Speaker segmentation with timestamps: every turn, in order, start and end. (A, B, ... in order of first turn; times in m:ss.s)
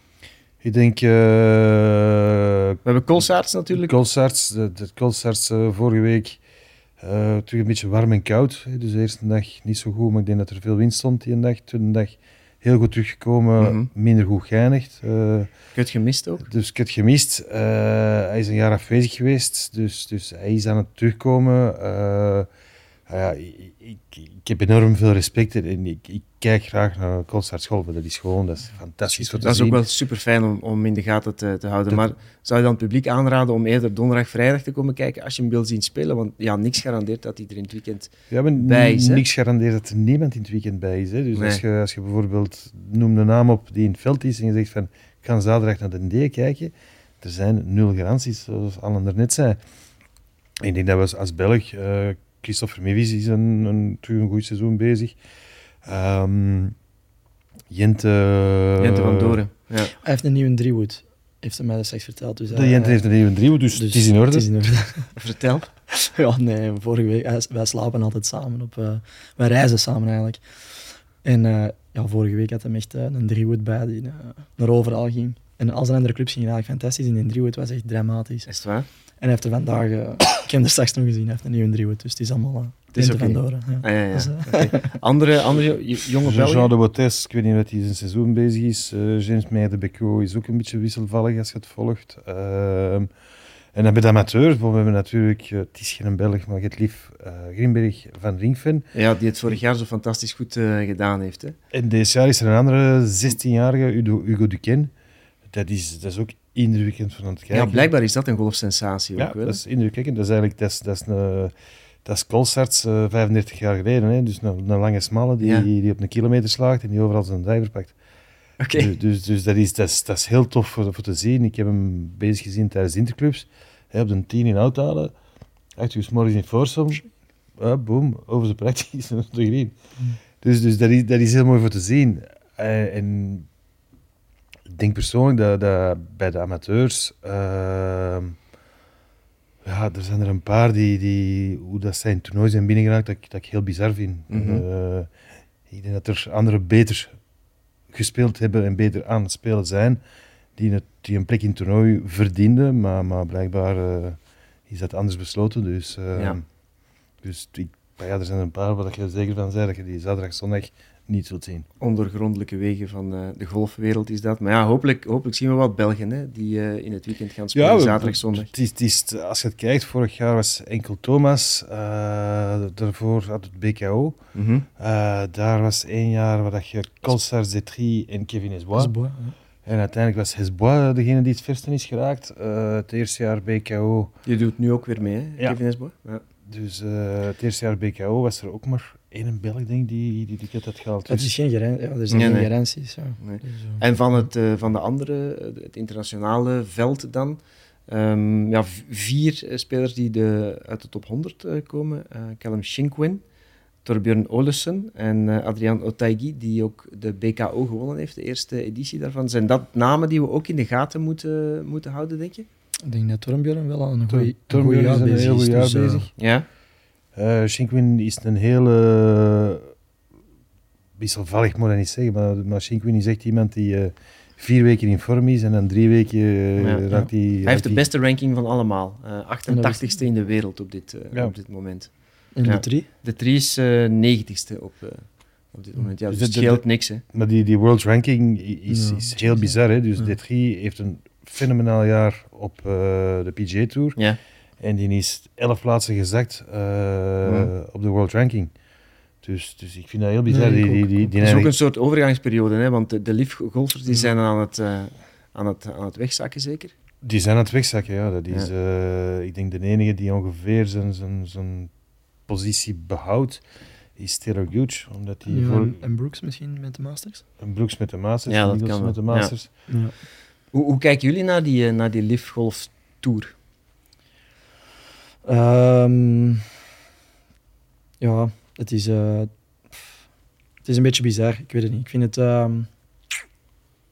0:00.6-0:02.8 A
0:02.8-0:03.9 B
0:03.7-0:06.4 A
0:07.0-0:15.5 A
0:13.6-0:13.9 B
0:15.8-0:16.4 B
0:16.4-0:22.5 A
0:23.1-0:29.8 A
0:29.2-0:29.5 C
0:29.4-0:39.2 B
0:38.3-0:49.6 A
0:41.4-0:41.6 B
0:50.6-0:55.2 A
0:55.8-0:56.8 A
0:57.7-0:59.4 A
0:58.8-1:00.0 B
1:00.0-1:03.0 C
1:02.5-1:04.8 A
1:03.7-1:05.1 C
1:05.2-1:05.7 B
1:05.9-1:10.4 C
1:11.2-1:18.5 C
1:18.5-1:18.9 B
1:19.2-1:25.0 C
1:23.0-1:26.7 B
1:26.2-1:33.1 A
1:33.7-1:38.9 A
1:38.9-1:41.6 B
1:41.7-1:44.9 A
1:45.5-1:47.9 A
1:47.5-1:49.6 B
1:49.2-1:51.5 A
1:52.0-1:58.0 A
1:55.4-1:55.7 B
1:58.6-1:58.9 B
1:58.7-2:05.1 A
2:05.8-2:09.8 A
2:10.4-2:13.5 A
2:14.7-2:18.4 A
2:19.6-2:25.1 A
2:24.3-2:24.6 B
2:25.7-2:27.1 A
2:27.9-2:30.0 A
2:30.6-2:36.4 A
2:37.2-2:41.7 A
2:41.8-2:48.5 B
2:47.6-2:54.2 A
2:54.4-2:54.7 B
2:54.8-2:58.9 A
2:58.8-2:59.4 C
2:59.6-3:04.1 A
3:04.3-3:06.2 B
3:06.5-3:11.3 A
3:11.1-3:13.8 C
3:12.1-3:12.5 B
3:13.2-3:23.2 B
3:23.8-3:32.5 B
3:32.8-3:36.1 C
3:34.1-3:36.1 A
3:36.2-3:36.5 B
3:37.2-3:39.7 A
3:41.0-3:47.8 A
3:46.6-3:46.8 B
3:47.4-3:57.0 B
3:49.5-3:50.0 C
3:52.4-3:52.9 C
3:56.1-4:04.0 A
3:58.7-4:00.1 C
4:04.6-4:08.5 A
4:07.2-4:07.5 B
4:09.2-4:11.5 A
4:10.3-4:11.1 C
4:11.2-4:16.7 B
4:17.0-4:21.7 A
4:22.3-4:23.4 A
4:24.0-4:25.8 A
4:25.3-4:27.2 C
4:27.4-4:29.5 A
4:28.3-4:29.3 B
4:29.7-4:29.9 C
4:30.5-4:33.3 B
4:35.2-4:36.5 C
4:38.0-4:39.3 C
4:40.6-4:42.7 C